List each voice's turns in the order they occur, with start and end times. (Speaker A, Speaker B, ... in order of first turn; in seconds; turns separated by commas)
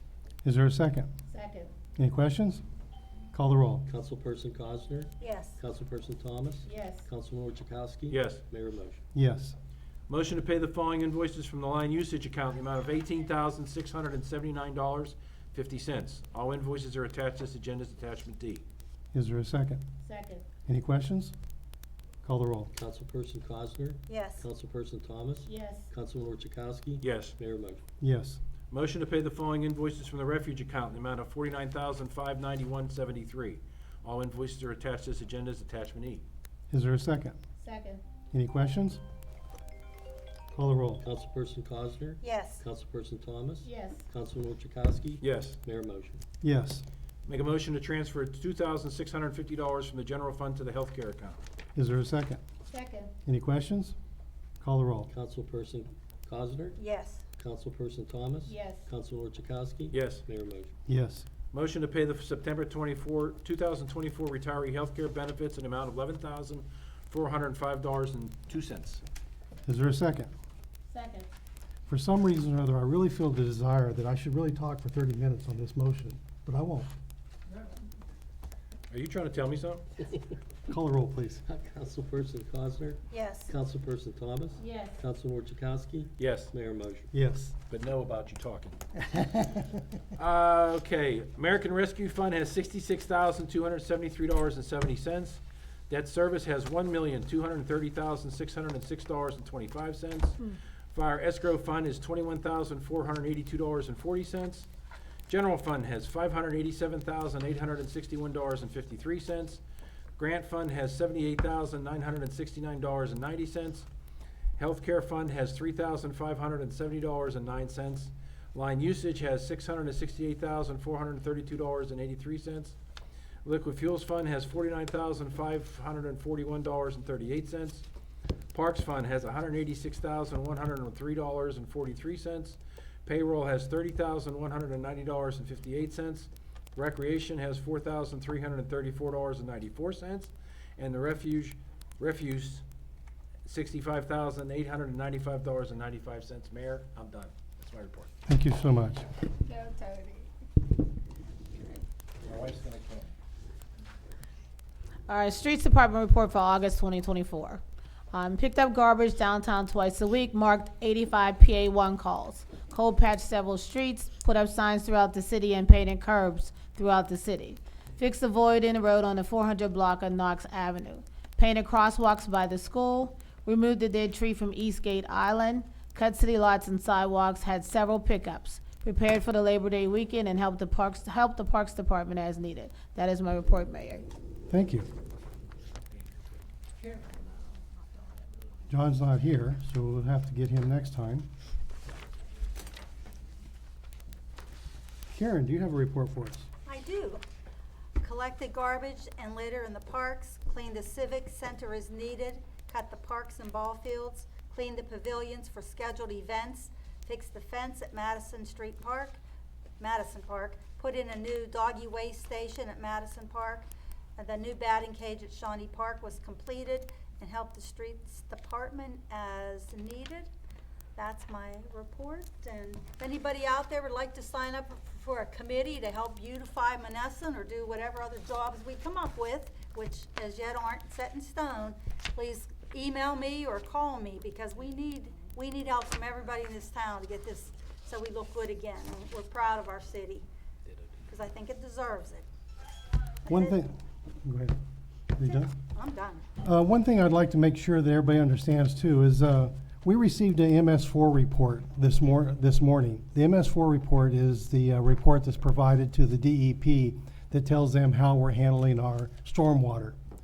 Speaker A: 0.4-1.1, Speaker B: 1.3-1.7, Speaker A: 2.0-2.6, Speaker A: 3.3-3.8, Speaker C: 3.9-9.0, Speaker D: 5.2-5.6, Speaker B: 6.7-7.0, Speaker E: 8.1-8.4, Speaker A: 9.1-9.6, Speaker E: 10.1-18.6, Speaker A: 19.1-19.8, Speaker B: 20.0-20.4, Speaker A: 20.6-21.3, Speaker A: 22.2-22.7, Speaker C: 22.7-27.8, Speaker D: 24.1-24.5, Speaker B: 25.5-25.9, Speaker E: 27.0-27.3, Speaker A: 28.0-28.4, Speaker E: 28.7-36.2, Speaker A: 36.7-37.4, Speaker B: 37.6-38.0, Speaker A: 38.3-39.0, Speaker A: 40.5-41.0, Speaker C: 41.0-46.2, Speaker D: 42.2-42.6, Speaker B: 43.6-44.0, Speaker E: 45.2-45.6, Speaker A: 46.4-46.8, Speaker E: 47.2-51.4, Speaker A: 51.8-52.4, Speaker B: 52.7-53.1, Speaker A: 53.2-53.9, Speaker A: 54.6-55.1, Speaker C: 55.1-56.8, Speaker D: 56.8-57.2, Speaker C: 57.4-60.7, Speaker B: 58.5-58.8, Speaker E: 59.9-60.2, Speaker A: 60.9-61.3, Speaker E: 61.5-69.0, Speaker A: 69.7-70.3, Speaker F: 70.9-71.3, Speaker A: 71.9-76.9, Speaker E: 78.9-79.8, Speaker A: 80.7-81.4, Speaker C: 81.5-87.1, Speaker D: 83.1-83.5, Speaker B: 84.6-85.0, Speaker E: 86.2-86.5, Speaker A: 87.1-87.5, Speaker E: 87.7-88.8, Speaker A: 89.1-89.5, Speaker E: 90.2-104.7, Speaker E: 105.3-109.6, Speaker E: 110.2-113.9, Speaker E: 114.6-122.8, Speaker E: 123.4-127.8, Speaker E: 128.5-142.6, Speaker E: 143.4-148.1, Speaker A: 148.3-149.0, Speaker B: 149.5-150.2, Speaker E: 152.2-153.1, Speaker F: 155.1-184.1, Speaker A: 184.5-184.9, Speaker E: 186.8-187.1, Speaker A: 188.7-191.3, Speaker A: 195.1-196.5, Speaker D: 196.7-197.2, Speaker D: 198.0-209.2, Speaker D: 209.8-220.3, Speaker D: 220.9-240.2, Speaker D: 241.1-242.2, Speaker D: 243.2-243.6, Speaker A: 243.3-244.6, Speaker A: 245.1-245.5, Speaker D: 245.2-246.2, Speaker A: 246.4-260.0